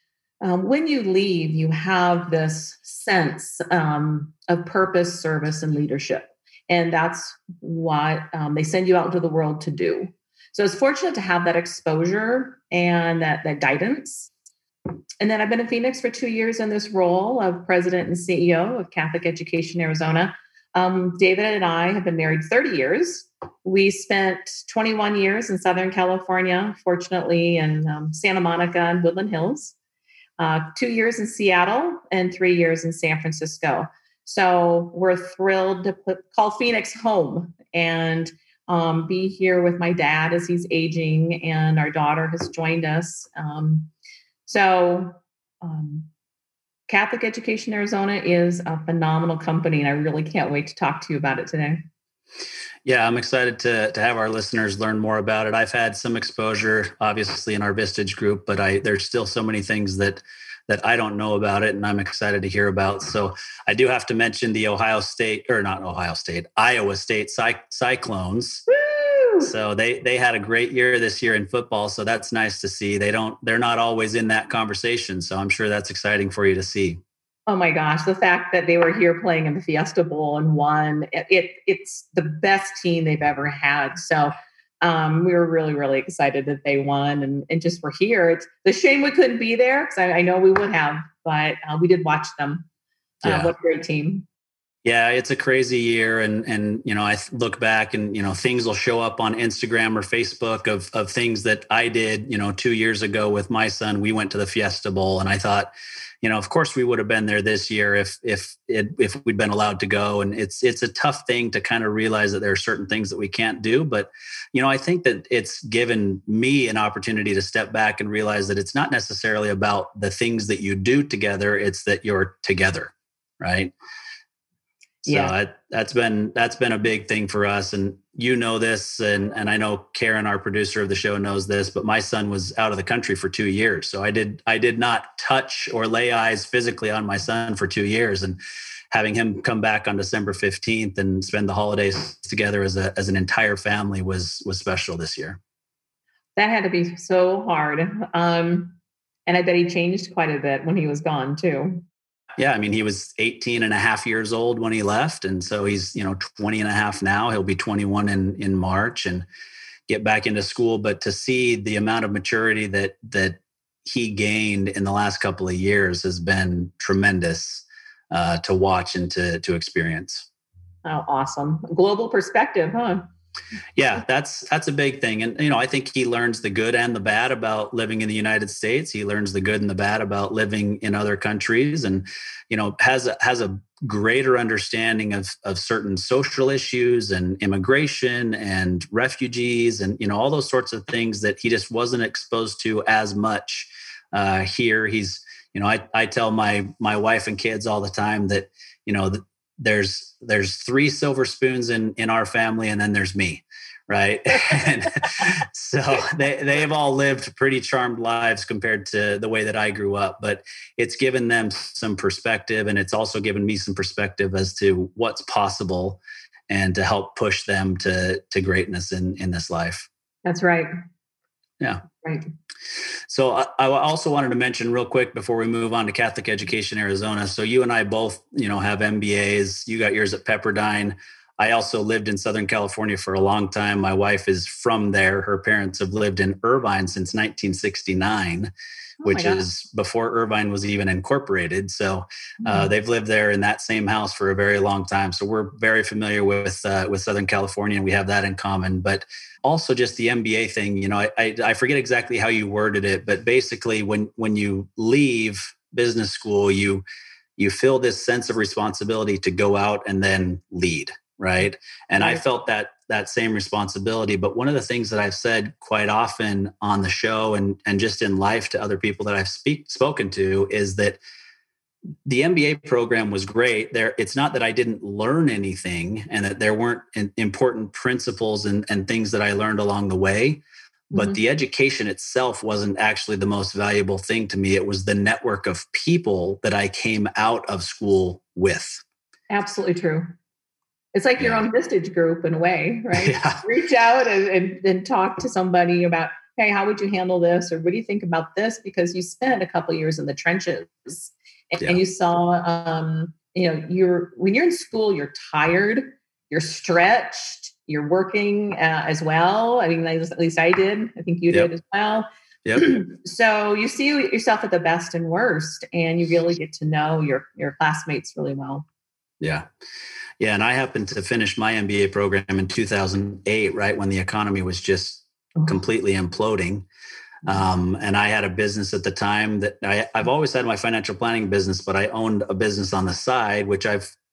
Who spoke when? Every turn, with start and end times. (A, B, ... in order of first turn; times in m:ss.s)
0:00.4-0:14.3 A
0:15.2-0:29.7 A
0:30.4-0:43.9 A
0:44.4-0:46.1 A
0:46.9-0:51.9 A
0:52.8-1:08.6 B
1:08.8-1:09.5 A
1:09.4-1:17.0 B
1:17.5-1:32.6 A
1:33.2-1:34.2 A
1:33.2-1:33.5 B
1:34.8-2:03.7 B
2:05.0-2:05.3 A
2:05.0-2:18.4 B
2:18.9-2:25.4 B
2:26.4-2:31.8 A
2:32.4-2:39.2 B
2:39.9-2:50.3 B
2:50.8-2:53.1 A
2:53.8-3:39.9 B
3:40.2-3:40.7 A
3:43.1-3:58.5 B
3:59.0-3:59.4 A
3:59.0-4:16.8 B
4:02.4-4:02.7 A
4:17.4-4:31.0 B
4:32.0-4:48.8 B
4:40.9-4:41.2 A
4:49.3-4:50.1 A
4:50.9-5:18.6 A
4:51.2-4:51.4 B
4:52.9-4:53.4 B
5:12.4-5:12.8 B
5:19.2-5:19.5 B
5:20.2-5:26.7 B
5:27.2-5:33.9 B